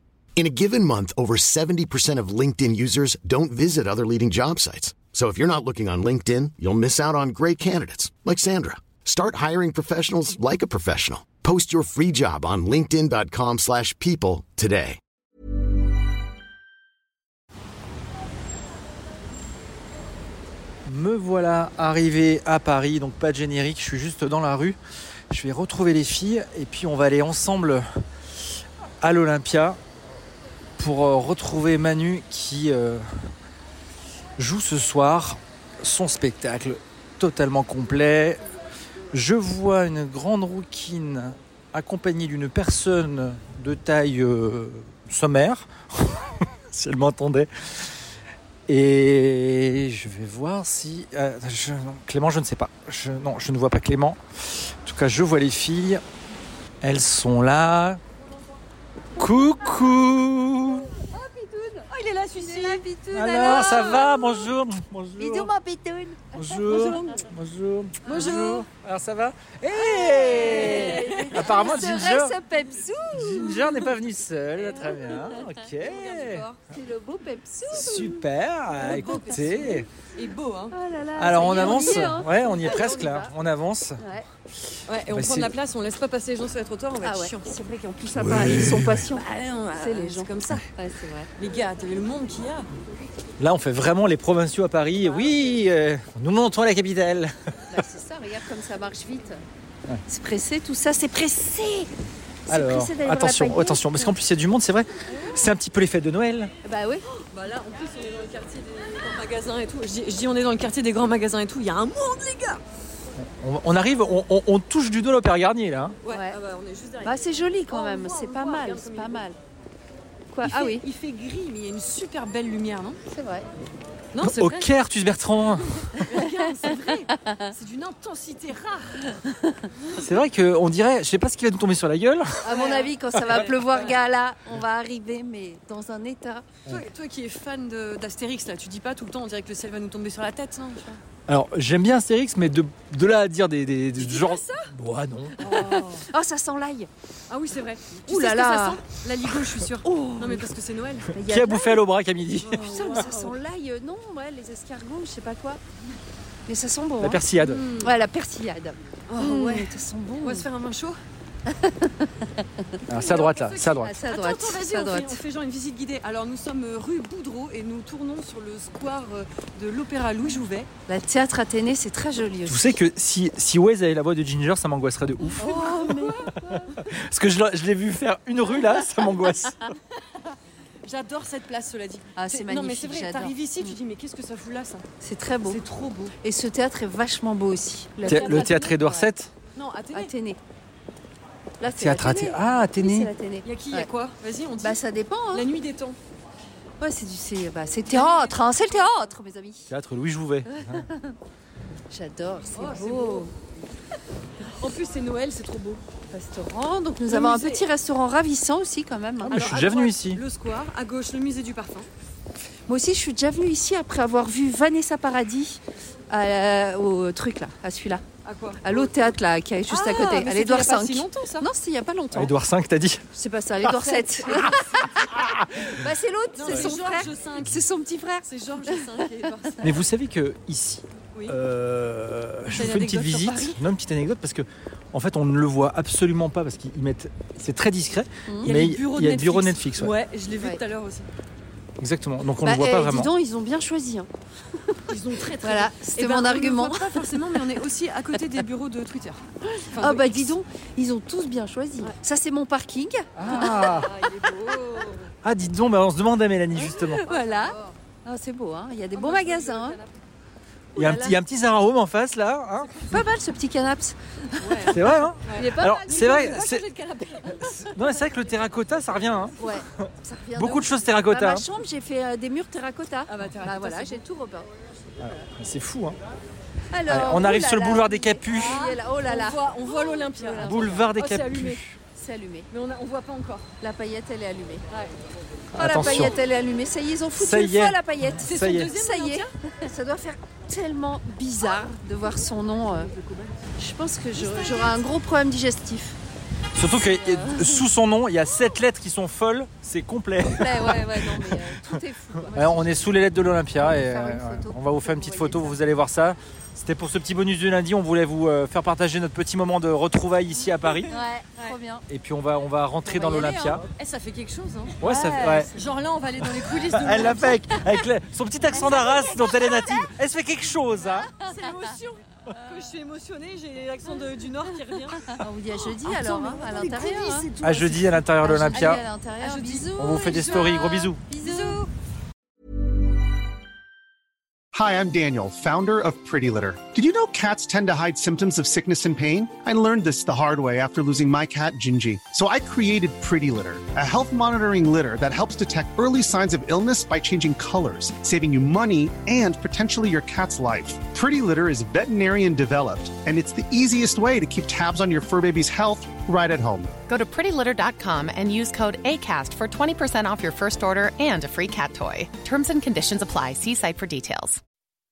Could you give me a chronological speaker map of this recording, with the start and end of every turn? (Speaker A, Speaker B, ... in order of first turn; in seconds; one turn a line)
Speaker A: 0.3-15.0
Speaker B: 20.9-24.8
Speaker B: 25.3-27.8
Speaker B: 29.0-29.8
Speaker B: 30.8-33.0
Speaker B: 34.4-38.4
Speaker B: 39.1-47.5
Speaker B: 48.7-56.0
Speaker B: 56.8-58.0
Speaker B: 59.2-60.9
Speaker C: 61.1-64.5
Speaker D: 61.9-62.8
Speaker B: 63.1-65.5
Speaker C: 65.2-67.2
Speaker B: 66.3-72.4
Speaker C: 68.1-68.4
Speaker D: 68.1-68.6
Speaker C: 69.7-73.9
Speaker D: 70.5-71.5
Speaker B: 73.1-76.5
Speaker C: 74.8-75.4
Speaker D: 75.8-76.5
Speaker C: 76.7-79.8
Speaker B: 77.7-79.9
Speaker D: 80.1-80.7
Speaker C: 80.7-83.3
Speaker B: 81.2-84.0
Speaker D: 81.4-82.1
Speaker C: 84.0-84.2
Speaker D: 84.9-87.5
Speaker B: 85.1-85.5
Speaker C: 87.0-89.2
Speaker B: 88.2-89.0
Speaker D: 89.1-90.6
Speaker C: 89.7-91.3
Speaker D: 91.4-92.7
Speaker B: 93.4-97.8
Speaker C: 97.7-99.4
Speaker C: 100.1-101.9
Speaker C: 102.5-104.1
Speaker B: 102.5-106.5
Speaker C: 106.6-107.0
Speaker D: 107.1-112.6
Speaker B: 113.2-116.0
Speaker D: 116.0-119.3
Speaker C: 116.1-116.3
Speaker C: 117.0-119.4
Speaker C: 120.3-120.8
Speaker D: 120.4-123.0
Speaker C: 123.1-123.5
Speaker D: 124.1-124.7
Speaker B: 124.2-126.0
Speaker D: 125.9-129.1
Speaker C: 129.2-129.5
Speaker B: 130.0-132.6
Speaker C: 132.4-136.5
Speaker D: 132.5-133.9
Speaker D: 136.7-141.0
Speaker B: 141.3-145.5
Speaker D: 143.9-144.7
Speaker D: 145.4-146.0
Speaker C: 145.5-146.9
Speaker D: 147.3-151.1
Speaker C: 148.1-148.8
Speaker C: 149.8-150.3
Speaker B: 151.1-152.8
Speaker C: 151.1-151.8
Speaker D: 152.4-153.3
Speaker C: 152.6-155.6
Speaker C: 156.5-160.4
Speaker B: 157.0-157.6
Speaker D: 157.4-157.9
Speaker D: 159.1-161.0
Speaker C: 161.5-162.2
Speaker B: 162.9-163.9
Speaker D: 162.9-170.7
Speaker C: 163.8-165.2
Speaker C: 170.9-172.8
Speaker B: 172.4-175.5
Speaker C: 175.4-176.6
Speaker D: 175.4-176.3
Speaker B: 176.4-179.6
Speaker D: 180.8-184.8
Speaker C: 182.2-183.7
Speaker C: 185.0-185.6
Speaker D: 185.4-186.1
Speaker C: 186.2-188.5
Speaker D: 188.0-190.1
Speaker B: 188.1-189.3
Speaker C: 189.9-190.4
Speaker C: 191.6-193.9
Speaker B: 191.7-193.1
Speaker D: 193.4-196.0
Speaker C: 194.6-195.4
Speaker C: 196.8-199.7
Speaker D: 197.9-199.0
Speaker B: 199.7-200.8
Speaker C: 200.7-201.1
Speaker C: 201.9-203.3
Speaker D: 202.5-203.3
Speaker D: 204.6-205.8
Speaker C: 206.1-209.4
Speaker D: 207.1-207.7
Speaker B: 209.2-210.2
Speaker D: 209.3-211.9
Speaker C: 212.7-218.0
Speaker D: 218.2-218.9
Speaker C: 218.6-222.3
Speaker D: 219.7-221.5
Speaker B: 222.1-223.0
Speaker C: 223.1-228.8
Speaker B: 223.6-225.9
Speaker D: 226.3-227.6
Speaker D: 228.2-229.8
Speaker B: 229.6-239.9
Speaker D: 232.5-233.6
Speaker C: 238.3-238.5
Speaker D: 238.4-241.1
Speaker B: 241.8-243.1
Speaker C: 242.4-244.1
Speaker D: 244.9-250.3
Speaker C: 244.9-247.0
Speaker C: 249.8-253.8
Speaker B: 253.2-253.9
Speaker D: 253.2-255.1
Speaker B: 255.2-257.0
Speaker C: 256.5-259.8
Speaker D: 257.0-257.7
Speaker D: 258.9-259.9
Speaker B: 260.7-262.8
Speaker C: 260.8-261.2
Speaker D: 262.7-263.0
Speaker C: 262.9-266.0
Speaker D: 264.4-267.6
Speaker B: 264.7-266.6
Speaker B: 267.6-271.5
Speaker C: 269.4-274.5
Speaker D: 273.1-274.0
Speaker B: 275.0-276.0
Speaker C: 276.7-280.9
Speaker B: 276.9-278.5
Speaker D: 278.3-281.6
Speaker B: 280.4-281.8
Speaker C: 281.9-282.5
Speaker D: 282.5-283.5
Speaker C: 283.6-284.6
Speaker B: 285.5-286.2
Speaker C: 285.6-292.9
Speaker B: 287.2-288.8
Speaker D: 288.2-289.3
Speaker D: 292.6-293.3
Speaker C: 293.6-296.0
Speaker D: 294.1-294.9
Speaker B: 296.5-310.9
Speaker C: 297.0-297.6
Speaker C: 300.3-302.9
Speaker D: 302.4-302.7
Speaker C: 303.5-305.6
Speaker C: 310.8-311.8
Speaker B: 311.9-313.6
Speaker D: 312.9-314.9
Speaker B: 314.8-315.5
Speaker C: 314.9-315.4
Speaker D: 315.4-317.4
Speaker B: 316.6-321.1
Speaker C: 318.6-319.9
Speaker D: 321.1-325.2
Speaker C: 325.1-327.3
Speaker D: 325.7-328.0
Speaker B: 327.4-328.8
Speaker C: 328.1-330.5
Speaker D: 328.5-331.7
Speaker B: 329.7-331.1
Speaker C: 331.1-331.6
Speaker E: 334.5-356.7
Speaker F: 356.9-364.4